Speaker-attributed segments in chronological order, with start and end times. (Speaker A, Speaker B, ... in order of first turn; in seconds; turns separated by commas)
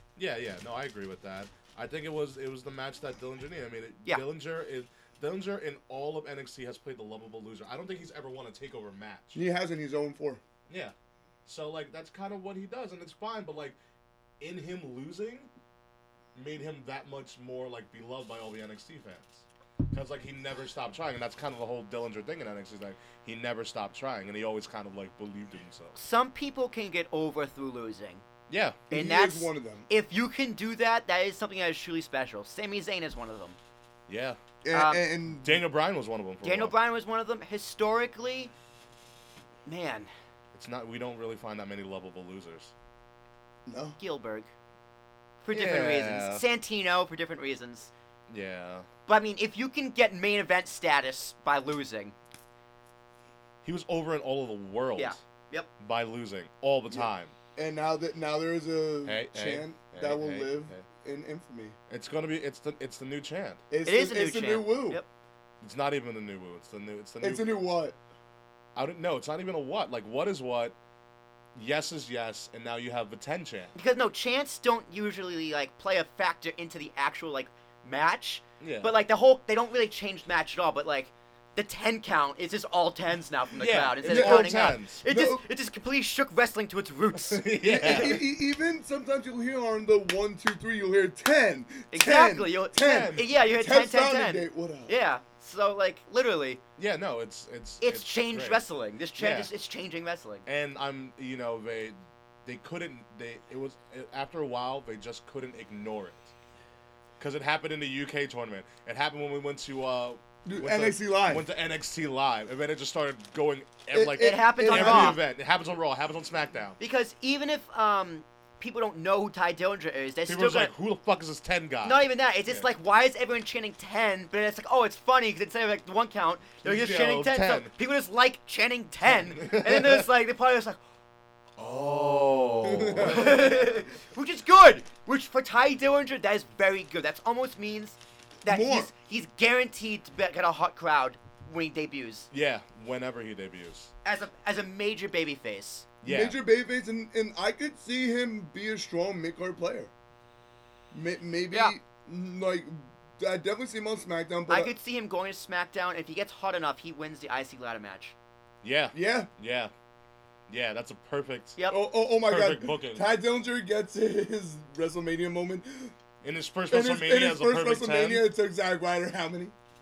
Speaker A: 0.1-9.4, Speaker B: 9.3-10.4, Speaker A: 10.7-10.9, Speaker A: 11.4-13.8, Speaker A: 14.4-15.5, Speaker A: 16.3-25.9, Speaker C: 25.9-28.2, Speaker A: 28.5-28.8, Speaker B: 28.9-29.9, Speaker C: 28.9-33.6, Speaker A: 34.1-34.4, Speaker B: 34.6-35.6, Speaker C: 34.7-35.0, Speaker A: 35.4-36.7, Speaker C: 36.4-38.5, Speaker C: 39.6-40.1, Speaker A: 40.5-42.7, Speaker B: 43.7-44.0, Speaker C: 44.0-44.5, Speaker C: 45.4-47.9, Speaker A: 45.5-46.4, Speaker A: 48.3-48.9, Speaker C: 49.1-52.1, Speaker A: 53.6-55.2, Speaker C: 55.0-55.7, Speaker A: 55.8-57.3, Speaker B: 56.9-61.8, Speaker A: 59.0-60.9, Speaker A: 61.9-63.6, Speaker B: 63.7-65.0, Speaker C: 63.8-65.0, Speaker A: 65.6-67.4, Speaker B: 67.2-68.0, Speaker A: 68.7-70.8, Speaker A: 71.5-73.7, Speaker C: 73.7-88.1, Speaker A: 78.6-78.9, Speaker A: 83.6-85.0, Speaker B: 84.0-85.4, Speaker A: 87.2-88.2, Speaker B: 87.6-94.9, Speaker C: 91.9-96.6, Speaker A: 92.8-93.3, Speaker A: 96.8-98.6, Speaker C: 97.8-100.4, Speaker A: 99.2-99.5, Speaker A: 100.5-106.3, Speaker A: 107.2-116.8, Speaker B: 110.5-111.5, Speaker B: 113.9-115.2, Speaker C: 114.2-115.2, Speaker C: 116.8-120.7, Speaker A: 120.2-122.7, Speaker C: 121.8-130.8, Speaker A: 126.6-127.7, Speaker A: 129.1-130.1, Speaker A: 131.6-133.7, Speaker B: 132.8-133.3, Speaker C: 132.9-142.3, Speaker B: 138.4-138.9, Speaker A: 142.3-143.9, Speaker C: 144.0-145.9, Speaker A: 146.0-146.3, Speaker B: 146.0-149.9, Speaker B: 150.9-154.7, Speaker C: 151.5-151.8, Speaker C: 154.5-158.1, Speaker A: 158.6-159.7, Speaker B: 158.9-159.3, Speaker A: 160.5-161.6, Speaker B: 161.7-165.9, Speaker A: 162.2-163.1, Speaker A: 166.2-168.2, Speaker B: 166.7-169.5